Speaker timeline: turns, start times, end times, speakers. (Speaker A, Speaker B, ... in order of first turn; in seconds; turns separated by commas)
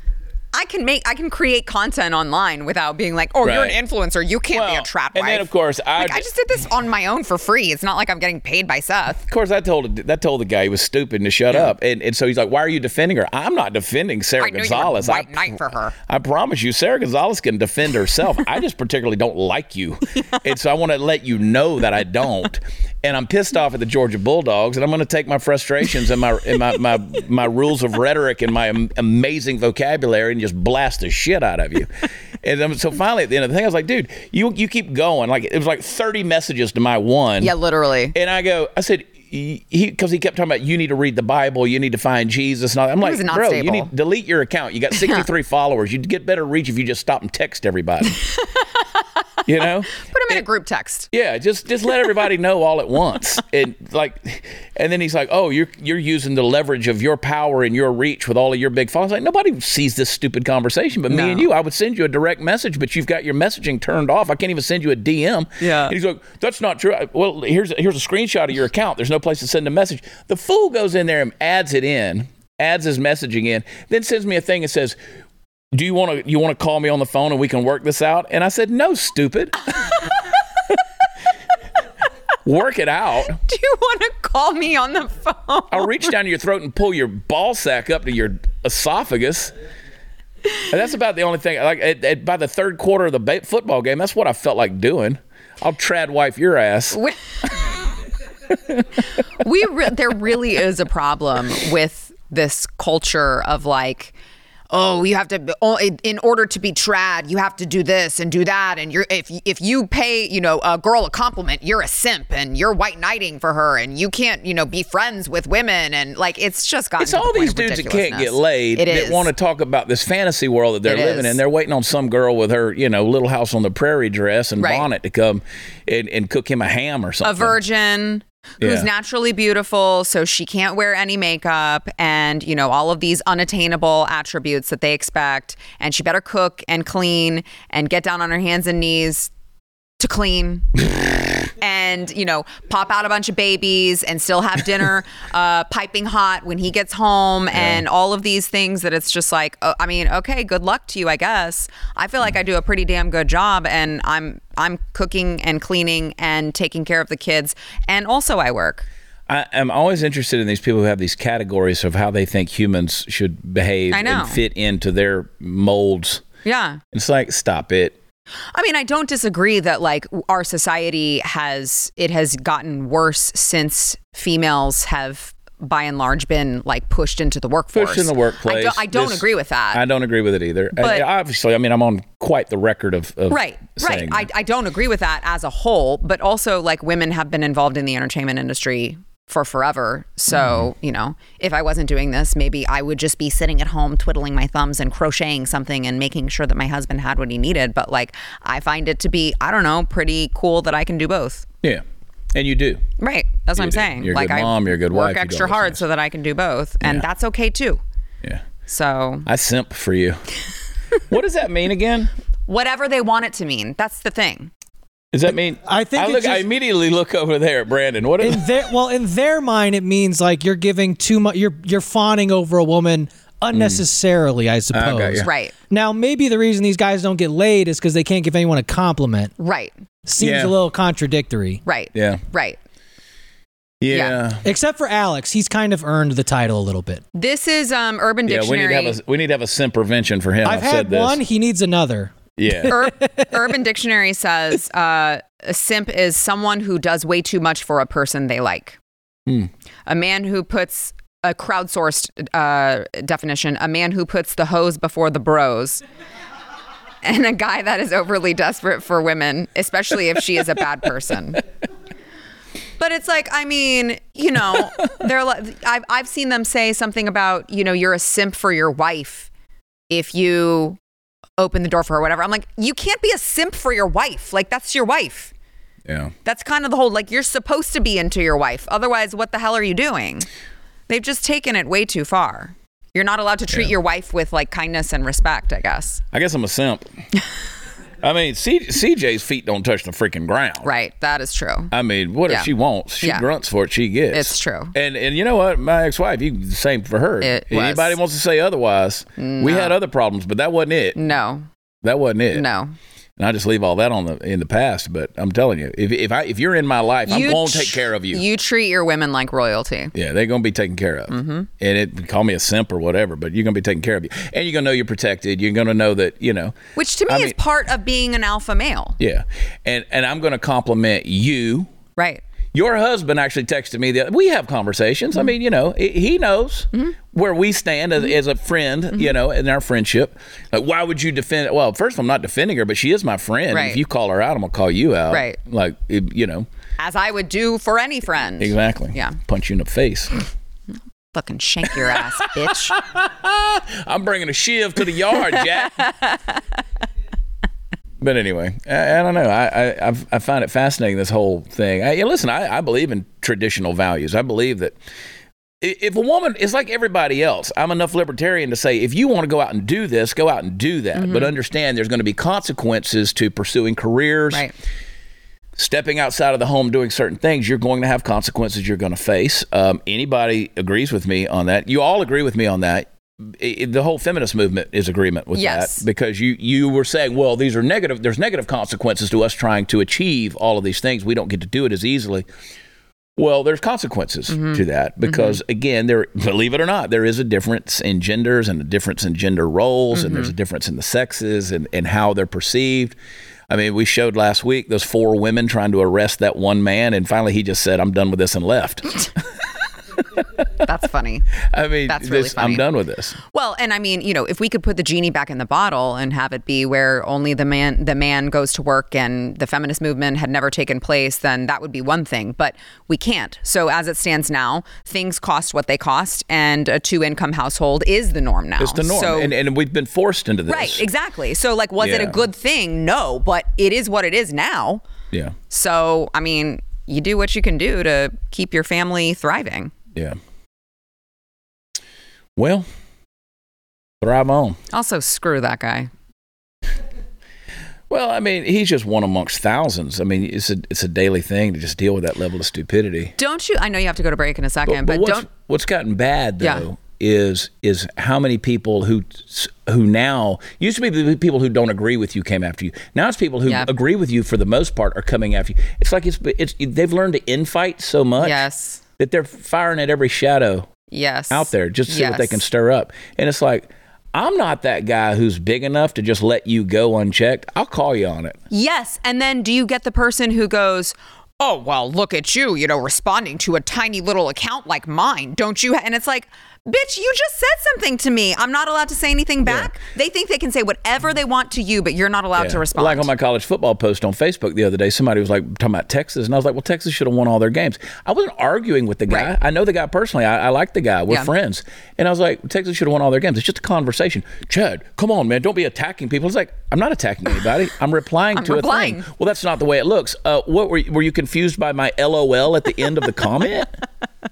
Speaker A: 0.5-9.2, Speaker B: 3.4-3.8, Speaker B: 4.5-6.2, Speaker B: 9.2-15.6, Speaker A: 14.4-15.9, Speaker B: 16.1-31.9, Speaker B: 32.4-37.5, Speaker A: 37.4-38.1, Speaker B: 38.1-48.2, Speaker A: 43.0-43.9, Speaker B: 49.4-50.4, Speaker A: 49.9-51.1, Speaker B: 51.1-75.0, Speaker A: 61.1-61.5, Speaker A: 65.6-65.9, Speaker B: 75.7-80.0, Speaker B: 82.4-83.4, Speaker A: 83.4-86.1, Speaker B: 85.7-89.5, Speaker B: 90.7-97.0, Speaker A: 96.9-97.7, Speaker A: 99.2-104.1, Speaker A: 104.7-119.3, Speaker B: 117.0-127.6, Speaker A: 120.8-121.4, Speaker A: 124.6-124.9, Speaker A: 127.2-139.3, Speaker B: 128.6-128.9, Speaker A: 140.0-140.8, Speaker A: 141.5-158.9, Speaker B: 147.5-147.8, Speaker B: 159.3-166.2, Speaker A: 163.9-164.4, Speaker A: 166.4-166.8, Speaker B: 166.9-168.0, Speaker A: 168.5-179.8, Speaker B: 177.7-184.3, Speaker A: 180.8-181.1, Speaker A: 183.3-201.4, Speaker B: 190.3-190.6, Speaker B: 201.6-202.8, Speaker A: 203.0-207.8, Speaker B: 203.6-205.8, Speaker A: 208.7-209.3, Speaker B: 209.2-210.2, Speaker B: 211.1-212.1, Speaker A: 212.5-214.5, Speaker B: 215.1-218.5, Speaker C: 215.7-216.4, Speaker C: 218.2-229.3, Speaker B: 223.5-223.8, Speaker B: 224.7-225.3, Speaker A: 225.2-225.5, Speaker A: 229.4-229.7, Speaker C: 230.1-231.6, Speaker B: 230.2-230.5, Speaker A: 231.6-232.6, Speaker B: 231.9-232.2, Speaker B: 233.8-234.4, Speaker A: 233.9-234.2, Speaker C: 234.4-237.0, Speaker A: 237.1-239.0, Speaker B: 238.2-241.2, Speaker C: 240.4-242.8, Speaker B: 242.4-242.7, Speaker A: 242.7-248.8, Speaker A: 249.9-255.8, Speaker A: 257.0-261.4, Speaker A: 262.8-269.3, Speaker A: 269.9-270.8, Speaker A: 271.4-275.3, Speaker B: 275.9-276.1, Speaker A: 276.2-280.3, Speaker A: 280.9-286.0, Speaker B: 286.1-286.9, Speaker B: 288.0-290.7, Speaker A: 290.6-291.7, Speaker B: 291.7-301.0, Speaker A: 294.1-294.7, Speaker A: 297.2-298.0, Speaker A: 299.2-299.7, Speaker A: 300.9-301.5, Speaker B: 301.8-302.4, Speaker A: 302.3-302.7, Speaker B: 303.2-308.2, Speaker A: 307.1-309.9, Speaker B: 309.9-316.5, Speaker A: 311.1-311.5, Speaker A: 316.8-319.0, Speaker B: 317.1-317.4, Speaker B: 319.0-321.7, Speaker A: 321.9-322.2, Speaker B: 322.5-336.5, Speaker A: 333.5-333.8, Speaker A: 335.1-335.4, Speaker A: 336.8-339.2, Speaker B: 338.4-340.1, Speaker A: 341.1-342.8, Speaker B: 342.7-345.9, Speaker A: 345.8-346.4, Speaker B: 348.0-354.8, Speaker B: 355.6-364.5, Speaker A: 360.9-361.3, Speaker B: 365.6-382.3, Speaker A: 375.3-375.8, Speaker B: 383.2-392.9, Speaker A: 384.3-385.4, Speaker A: 389.9-390.3, Speaker B: 393.5-399.0, Speaker A: 400.6-401.3, Speaker B: 401.5-403.2, Speaker A: 401.9-402.6, Speaker A: 403.3-419.3, Speaker B: 418.6-420.8, Speaker A: 420.5-424.8, Speaker B: 421.8-422.2, Speaker A: 425.5-429.7, Speaker B: 432.4-432.6, Speaker B: 434.0-434.6, Speaker A: 434.7-435.9, Speaker B: 437.9-443.1, Speaker A: 443.2-445.3, Speaker B: 444.6-458.4, Speaker A: 446.4-446.6, Speaker A: 458.2-458.8, Speaker B: 459.0-460.7, Speaker A: 460.9-462.4, Speaker B: 461.3-468.4, Speaker A: 468.5-483.1, Speaker B: 479.4-479.7, Speaker B: 482.4-503.8, Speaker A: 498.3-499.1